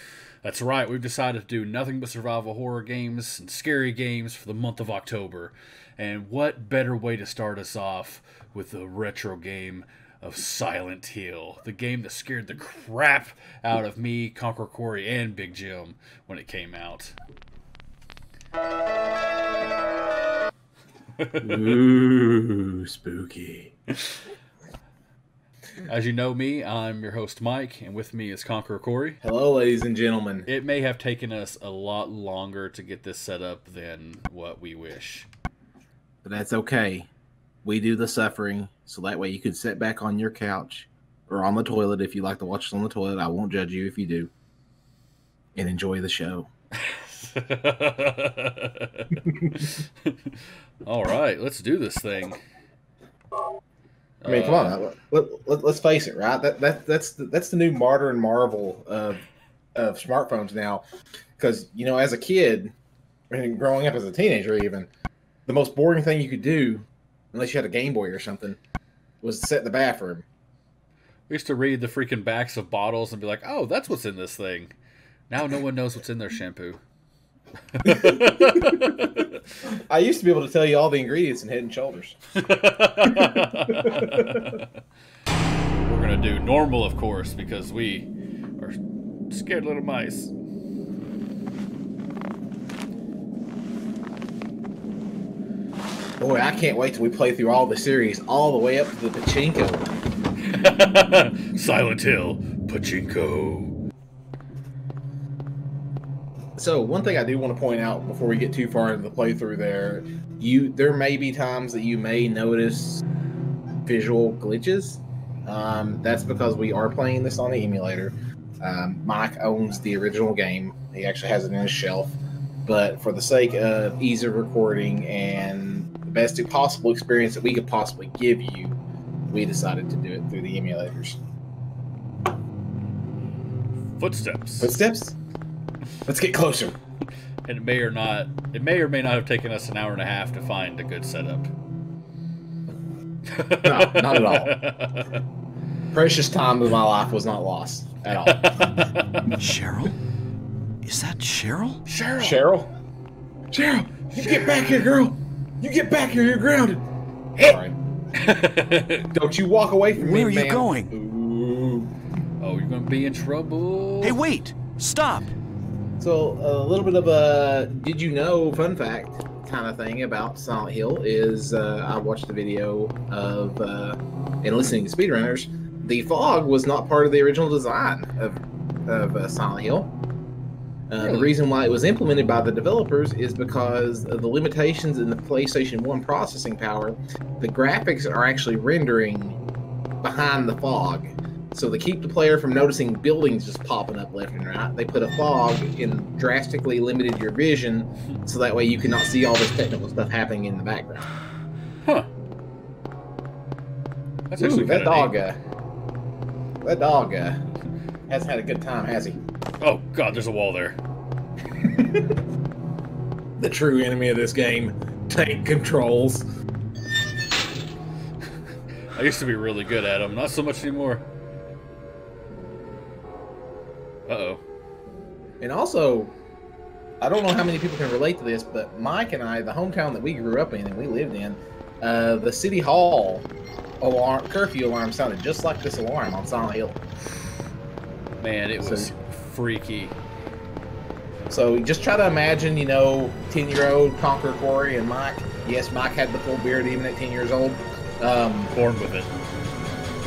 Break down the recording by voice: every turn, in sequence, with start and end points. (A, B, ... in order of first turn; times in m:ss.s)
0:00.4-0:17.2 A
0:21.2-0:21.8 A
0:21.4-0:23.7 B
0:25.8-0:29.2 A
0:29.2-0:30.5 B
0:30.5-0:35.3 A
0:36.2-0:37.1 B
0:37.6-0:44.3 B
0:45.6-0:46.5 B
0:46.8-0:52.4 A
0:54.2-0:54.8 A
0:54.3-0:59.2 B
0:59.8-1:00.8 B
1:01.4-1:02.7 B
1:03.3-1:04.9 B
1:05.5-1:08.6 B
1:09.2-1:10.3 B
1:11.3-1:14.7 A
1:15.3-1:16.8 A
1:17.7-1:19.4 A
1:17.9-1:19.1 B
1:19.7-1:22.2 B
1:22.4-1:24.7 A
1:23.0-1:24.6 B
1:25.8-1:28.8 A
1:29.3-1:30.3 A
1:36.2-1:39.9 B
1:40.4-1:43.8 A
1:46.6-1:53.0 B
1:53.9-2:02.2 B
2:02.7-2:08.8 B
2:09.3-2:11.2 B
2:14.0-2:14.7 A
2:14.6-2:15.2 B
2:16.1-2:16.8 B
2:17.5-2:21.5 A
2:23.3-2:25.2 A
2:23.6-2:24.6 B
2:25.9-2:28.5 B
2:28.0-2:29.3 A
2:29.4-2:30.0 C
2:30.8-2:31.8 C
2:31.9-2:32.4 A
2:32.2-2:32.7 B
2:33.5-2:36.8 B
2:34.1-2:34.9 A
2:37.4-2:37.8 B
2:38.2-2:39.1 A
2:39.1-2:41.9 B
2:40.0-2:40.9 C
2:42.4-2:44.2 A
2:44.0-2:45.3 C
2:46.0-2:59.9 B
3:00.9-3:09.4 B
3:01.0-3:01.4 A
3:10.0-3:21.1 B
3:24.3-3:25.1 A
3:24.4-3:25.4 B
3:26.6-3:27.4 B
3:28.1-3:29.2 B
3:29.6-3:30.8 A
3:31.6-3:32.1 B
3:33.4-3:36.2 B
3:39.0-3:41.0 A
3:44.1-3:44.4 A
3:45.4-3:46.1 B
3:47.0-3:53.3 B
3:53.8-3:56.8 B
3:58.2-4:00.0 A
3:58.6-3:58.9 B
4:01.3-4:08.5 B
4:08.5-4:09.1 A